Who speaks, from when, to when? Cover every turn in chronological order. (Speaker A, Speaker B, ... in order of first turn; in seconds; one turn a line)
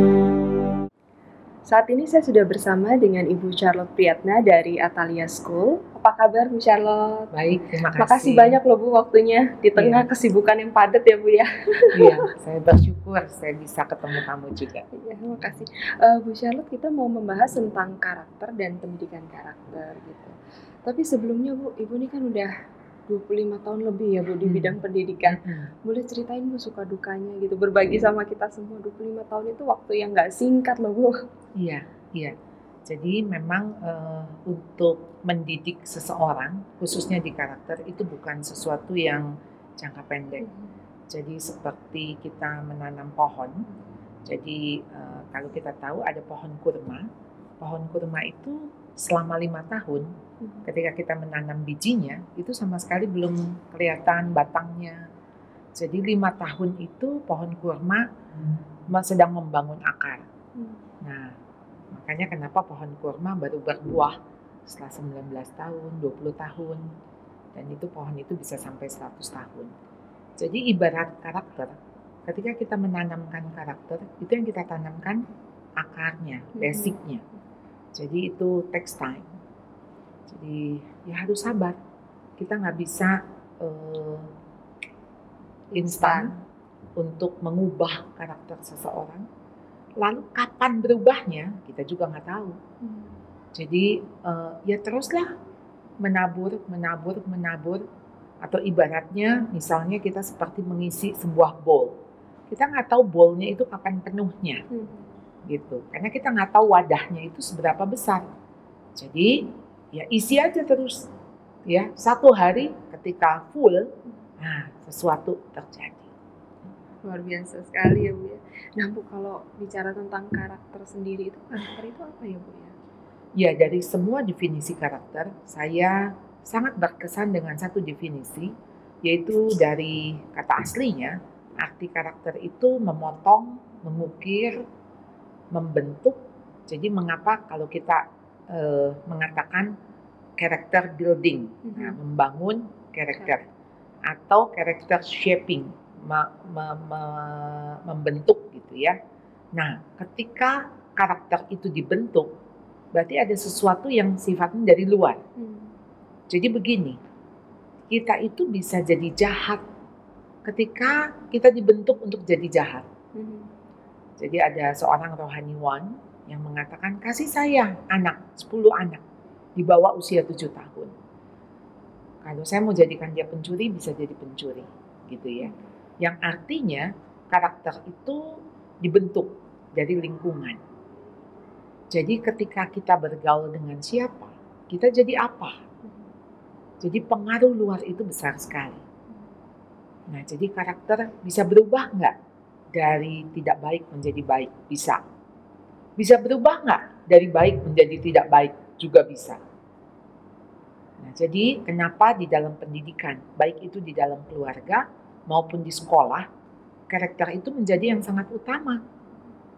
Speaker A: 1.6-7.3
Speaker B: 7.3-8.6
Speaker A: 7.9-12.2
Speaker B: 9.8-10.0
Speaker B: 11.9-14.9
Speaker A: 14.9-22.5
Speaker A: 23.1-31.1
Speaker B: 24.4-25.7
Speaker B: 31.6-32.3
Speaker B: 32.9-40.5
Speaker A: 40.4-40.7
Speaker B: 41.1-43.7
Speaker B: 44.2-47.1
Speaker B: 47.6-50.1
Speaker B: 50.6-55.0
Speaker B: 55.8-58.1
Speaker B: 58.9-60.2
Speaker A: 60.5-60.9
Speaker B: 61.0-61.3
Speaker B: 61.9-66.8
Speaker B: 67.5-69.7
Speaker B: 70.4-71.7
Speaker B: 72.3-75.2
Speaker B: 75.8-77.2
Speaker A: 76.6-77.0
Speaker B: 77.9-79.3
Speaker B: 80.3-81.8
Speaker B: 82.4-84.3
Speaker A: 85.7-86.3
Speaker B: 85.7-86.4
Speaker B: 87.0-89.2
Speaker B: 90.0-92.6
Speaker A: 92.8-93.2
Speaker B: 93.5-95.3
Speaker B: 96.0-97.8
Speaker B: 98.4-101.9
Speaker B: 102.5-104.6
Speaker A: 104.7-105.1
Speaker B: 105.5-108.2
Speaker B: 109.0-111.1
Speaker B: 111.7-113.9
Speaker B: 114.4-116.1
Speaker A: 117.0-122.7
Speaker B: 123.4-134.7
Speaker B: 135.5-139.7
Speaker B: 140.4-143.4
Speaker A: 141.6-142.0
Speaker B: 144.1-149.0
Speaker B: 149.5-152.3
Speaker B: 152.9-155.2
Speaker A: 155.4-155.7
Speaker B: 156.3-157.0
Speaker B: 157.9-159.6
Speaker B: 160.4-162.8
Speaker A: 163.1-163.5
Speaker B: 164.2-169.0
Speaker B: 169.6-170.9
Speaker B: 172.2-180.6
Speaker B: 181.9-185.6
Speaker B: 186.8-188.8
Speaker B: 190.1-192.1
Speaker B: 192.7-195.0
Speaker B: 196.0-199.4
Speaker B: 201.0-206.2
Speaker B: 206.9-208.8